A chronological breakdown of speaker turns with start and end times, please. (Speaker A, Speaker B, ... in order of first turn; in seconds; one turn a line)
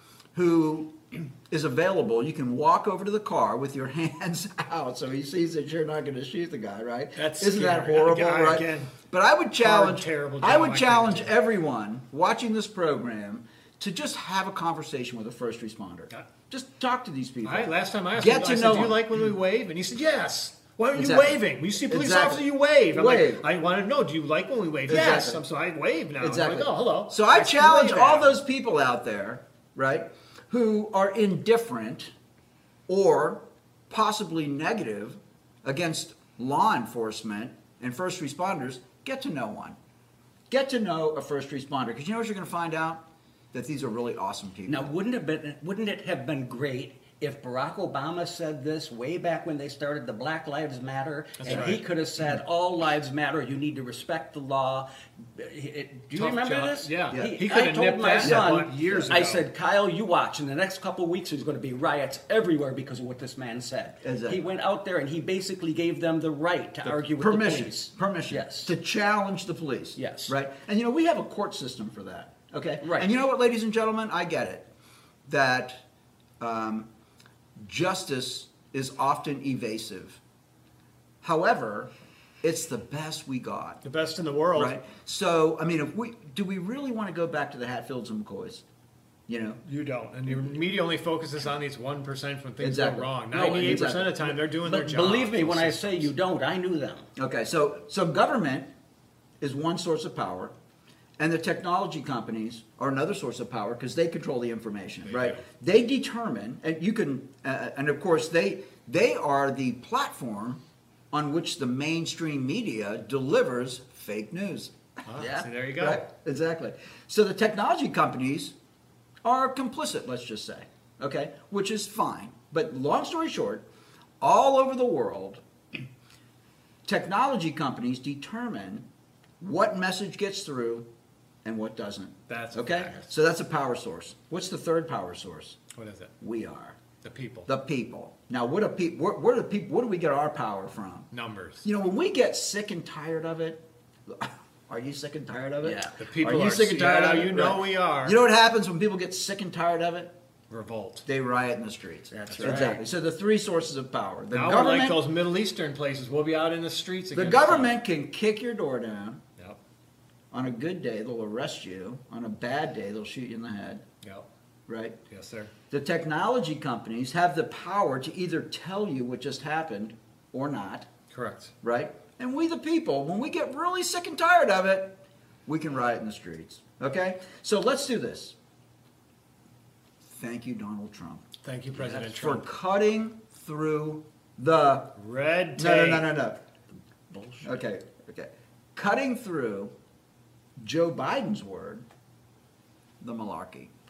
Speaker A: 0.3-19.0
Speaker B: 7.2-8.9
Speaker B: 9.6-11.3
Speaker B: 17.4-28.4
Speaker A: 20.9-23.4
Speaker A: 24.9-25.4
Speaker A: 26.2-32.1
Speaker A: 32.9-39.8
Speaker A: 40.5-44.9
Speaker C: 44.6-68.7
Speaker B: 51.4-51.8
Speaker A: 51.5-51.7
Speaker B: 56.1-59.5
Speaker A: 58.2-59.1
Speaker A: 64.0-64.4
Speaker A: 67.1-74.7
Speaker C: 70.0-70.3
Speaker C: 72.8-73.1
Speaker A: 75.3-75.8
Speaker A: 76.4-76.9
Speaker A: 77.6-80.2
Speaker A: 81.2-81.9
Speaker A: 82.4-83.8
Speaker B: 83.8-84.7
Speaker A: 84.5-88.6
Speaker A: 89.3-89.6
Speaker B: 89.6-96.1
Speaker A: 92.6-94.4
Speaker C: 93.3-97.1
Speaker A: 97.2-98.7
Speaker A: 99.4-100.5
Speaker A: 101.2-110.6
Speaker B: 105.0-105.4
Speaker A: 111.1-114.7
Speaker B: 115.1-116.0
Speaker C: 115.2-115.5
Speaker A: 115.8-118.5
Speaker A: 119.2-123.6
Speaker A: 124.2-125.4
Speaker A: 126.8-128.8
Speaker A: 129.4-130.9
Speaker A: 131.4-135.6
Speaker B: 132.3-133.0
Speaker B: 135.7-136.1
Speaker A: 136.2-136.8
Speaker B: 137.0-137.5
Speaker A: 137.4-141.1
Speaker B: 141.1-141.6
Speaker A: 141.6-150.1
Speaker C: 145.6-145.9
Speaker B: 146.0-148.2
Speaker B: 150.5-151.0
Speaker A: 151.1-155.0
Speaker C: 152.1-152.8
Speaker B: 152.3-152.6
Speaker B: 154.3-157.7
Speaker A: 157.1-159.2
Speaker A: 160.3-163.8
Speaker A: 164.7-165.0
Speaker B: 165.1-165.5
Speaker A: 165.7-170.9
Speaker B: 171.1-171.5
Speaker A: 171.6-174.9
Speaker A: 175.5-178.3
Speaker A: 180.1-181.2
Speaker B: 181.4-182.5
Speaker A: 181.7-184.9
Speaker B: 184.9-186.1
Speaker A: 185.6-186.4
Speaker C: 187.1-187.6
Speaker A: 187.4-189.7
Speaker A: 190.6-191.8
Speaker A: 193.0-193.7